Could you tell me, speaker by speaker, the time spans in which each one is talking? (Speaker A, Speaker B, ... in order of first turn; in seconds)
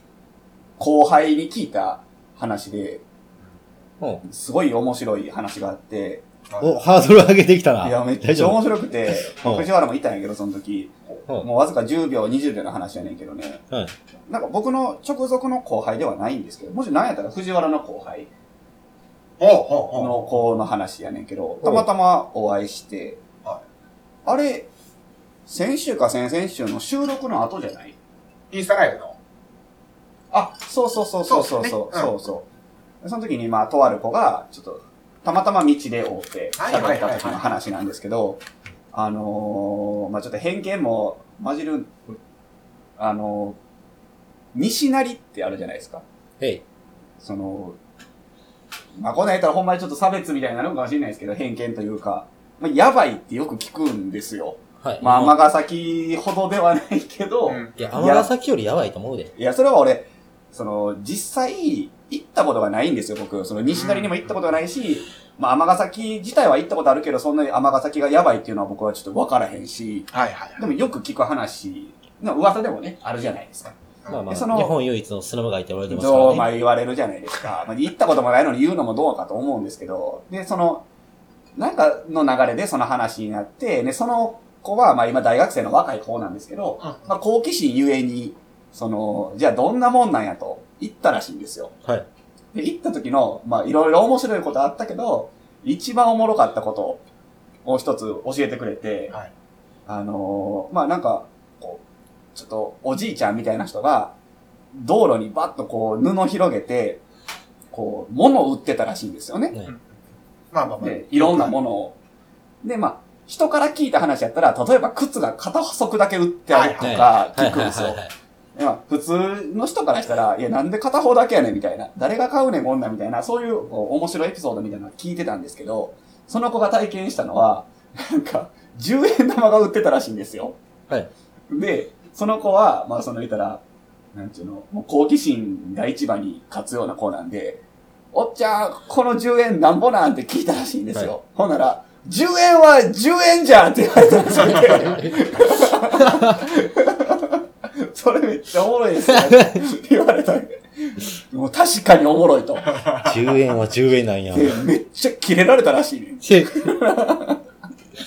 Speaker A: 0.8-3.0, 4.2-6.2, 7.8-13.6, 14.3-18.3, 19.9-23.2, 24.2-24.7, 25.5-27.9, 30.3-32.5, 33.0-41.9, 43.0-43.6, 44.5-46.0, 47.2-47.8, 49.0-58.3, 59.4-73.7, 74.3-74.7, 75.9-80.8, 81.6-91.7, 92.5-97.0, 97.6-99.1, 99.9-101.8, 102.3-104.1, 104.7-107.0, 107.7-109.5, 110.8-111.9, 112.6-118.0, 118.5-130.6, 131.5-133.6, 134.1-137.6, 138.1-152.8, 154.3-157.4
Speaker B: 6.5-6.8, 19.4-20.2, 28.5-29.1, 31.3-32.1, 36.6-37.6, 57.5-57.9, 63.7-64.3, 70.1-70.6, 86.8-87.1, 110.5-111.5, 116.5-117.0, 144.4-145.0, 152.7-153.2
Speaker C: 6.6-9.7, 21.6-21.9, 54.8-55.3, 57.8-59.3, 74.1-76.5, 116.8-118.1, 153.0-154.6, 156.2-156.5